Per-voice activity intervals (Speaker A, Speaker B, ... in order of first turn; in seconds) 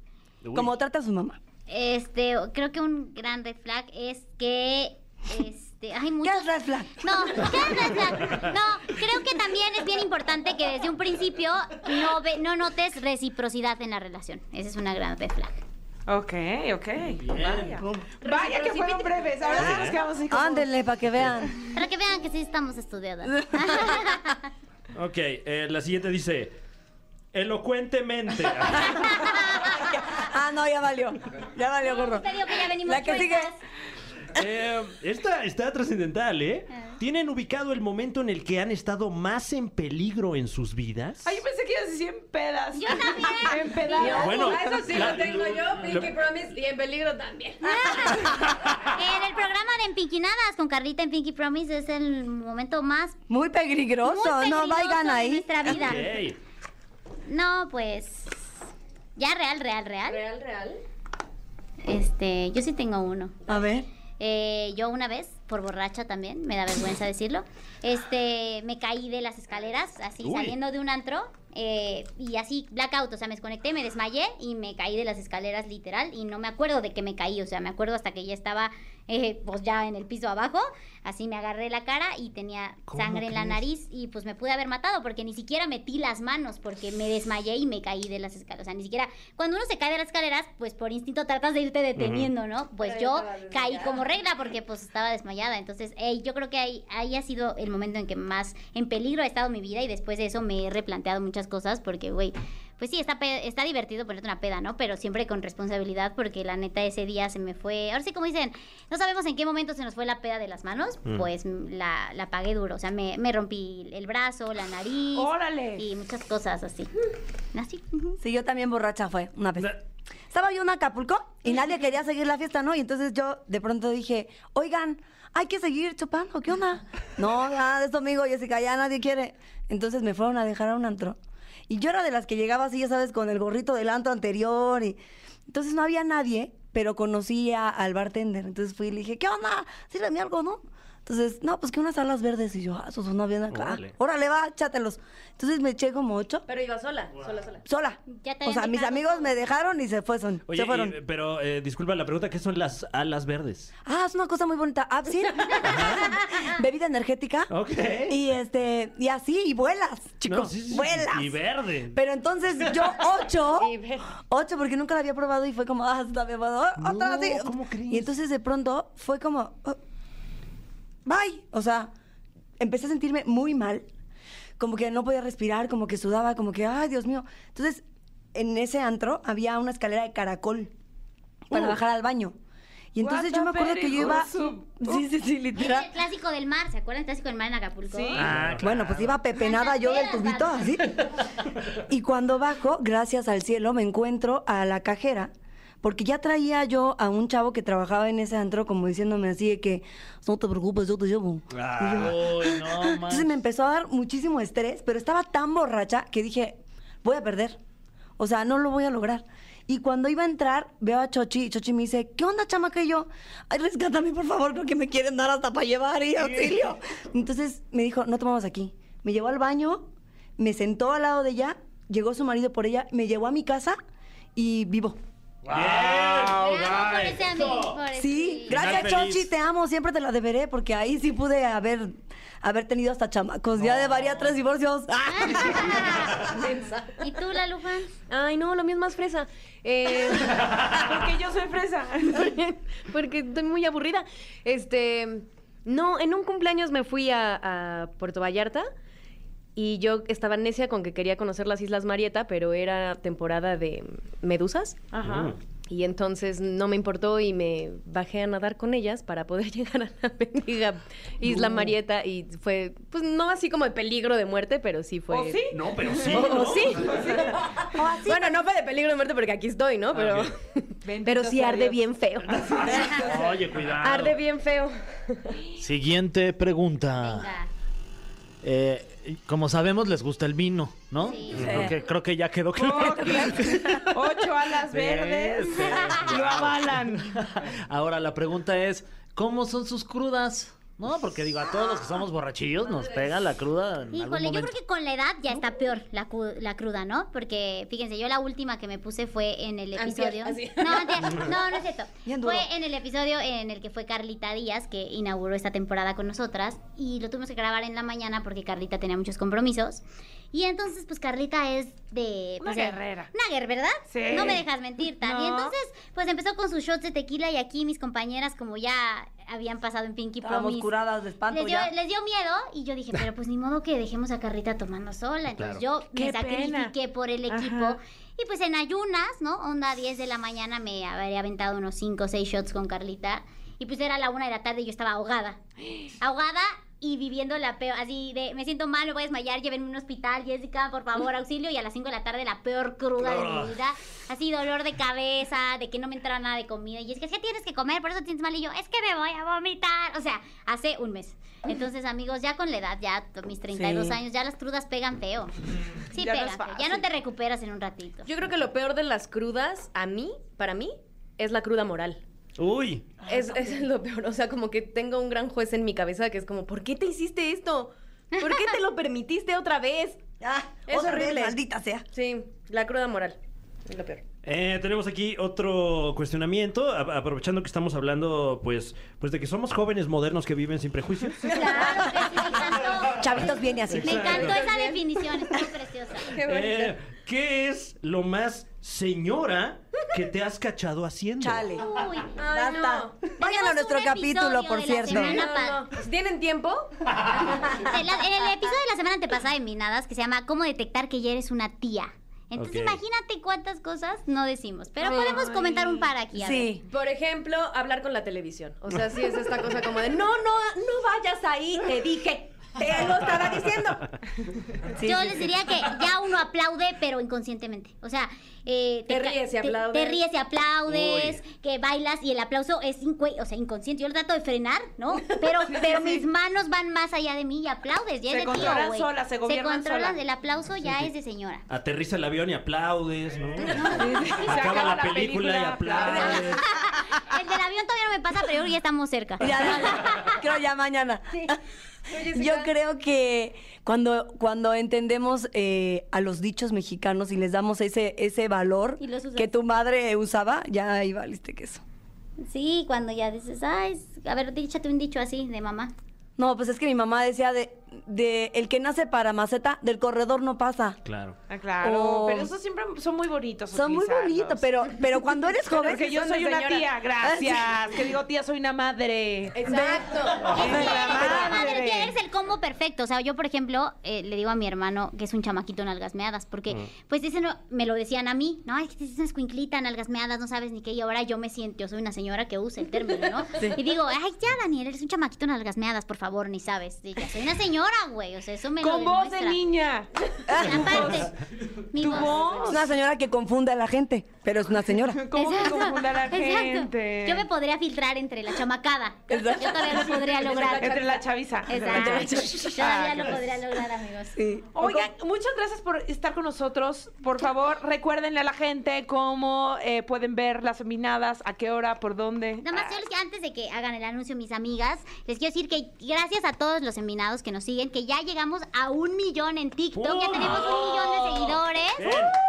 Speaker A: 0.4-0.7, 19.6-20.0, 24.9-26.5, 27.3-29.3, 34.3-41.4, 44.1-46.2, 55.6-56.4, 70.2-70.6, 82.9-83.6, 92.0-92.3, 143.5-143.9, 150.5-153.7, 155.7-156.1, 157.5-158.2, 160.3-162.0, 166.8-168.1, 188.2-188.7, 225.5-227.7, 228.5-229.3, 233.6-234.2, 255.0-255.4, 265.5-267.1, 269.9-270.3, 281.4-281.7, 325.4-325.6, 343.1-343.5, 362.4-362.9, 374.2-381.4, 383.7-384.5, 386.1-391.5, 402.4-402.8, 420.7-421.2, 431.5-436.4, 460.9-461.2, 519.8-520.6, 521.8-522.2
Speaker B: 0.5-1.4, 6.2-8.0, 17.7-18.1, 20.3-21.6, 23.3-24.1, 29.7-32.3, 32.8-33.5, 53.3-55.5, 63.5-63.9, 118.2-119.8, 120.3-131.2, 131.7-146.5, 147.7-151.0, 153.8-157.5, 158.1-161.4, 161.9-169.8, 171.1-171.9, 172.6-173.9, 174.6-177.8, 178.3-180.7, 181.5-182.3, 182.9-185.9, 188.6-191.1, 191.8-195.3, 195.8-207.6, 208.2-223.8, 224.4-225.0, 227.9-236.1, 261.2-261.7, 267.7-268.4, 302.1-302.5, 320.2-321.7, 353.5-354.0, 370.2-371.8, 381.5-382.2, 382.9-384.4, 391.2-391.7, 392.2-395.3, 406.2-406.6, 412.6-413.8, 414.7-415.3, 439.2-441.4, 442.1-451.6, 456.2-460.8, 461.6-462.3, 463.5-465.9, 467.0-467.5, 469.4-471.5, 490.3-491.1, 492.5-495.1, 499.1-500.1, 501.7-502.5, 504.1-504.9
Speaker C: 1.7-15.6, 21.7-24.4, 28.9-29.4, 31.8-33.6, 42.7-44.5, 47.6-53.2, 54.0-56.1, 57.3-58.3, 59.2-60.2, 61.8-63.4, 64.2-116.9, 117.5-118.2, 148.1-149.3, 185.5-188.3, 189.4-190.8, 226.3-228.7, 235.1-236.3, 237.0-237.9, 277.0-277.5, 281.0-281.6, 293.9-320.7, 321.3-335.4, 336.0-355.3, 355.9-358.1, 381.3-383.3, 383.8-386.1, 391.6-392.2, 393.2-395.6, 397.5-406.6, 414.8-431.4, 433.5-434.2, 436.0-440.2, 448.8-449.4, 452.2-455.7, 470.3-489.4, 490.3-491.1, 491.7-492.6, 495.2-500.8, 501.5-504.2, 512.4-521.9
Speaker D: 16.1-20.7, 41.2-45.0, 115.1-115.9, 183.0-184.8, 187.9-188.3, 240.6-242.3, 254.9-255.3, 265.1-267.4, 270.9-271.8, 272.7-273.4, 282.5-287.2, 312.4-313.1, 313.9-314.4, 315.0-315.5, 325.9-326.7, 327.3-327.8, 355.9-356.9, 404.9-405.9, 425.5-426.0, 428.1-430.0, 433.4-436.4, 461.3-464.5, 465.6-469.4, 470.3-471.9, 488.6-491.1, 491.8-492.7, 494.9-497.3, 500.6-503.2, 504.6-512.8, 520.4-521.3
Speaker E: 17.3-17.8, 188.2-189.1, 201.7-203.3, 225.5-226.6, 266.3-266.7, 272.9-274.2, 275.6-277.3, 278.4-283.9, 284.7-294.5
Speaker F: 18.2-19.2, 44.0-48.2, 60.1-60.8, 92.8-94.0, 146.5-147.6, 163.5-164.1, 236.3-237.0, 238.1-240.7, 242.1-248.7, 249.6-254.9, 255.7-265.5, 266.1-275.4, 281.3-281.8, 299.8-301.3, 358.1-362.0, 363.1-370.0, 370.7-371.4, 371.9-374.0, 381.3-382.3, 384.2-384.8, 386.1-386.7, 392.2-393.0, 394.9-397.9, 406.7-413.6, 418.9-420.0, 441.9-442.5, 465.5-466.7, 469.4-470.6, 499.9-501.1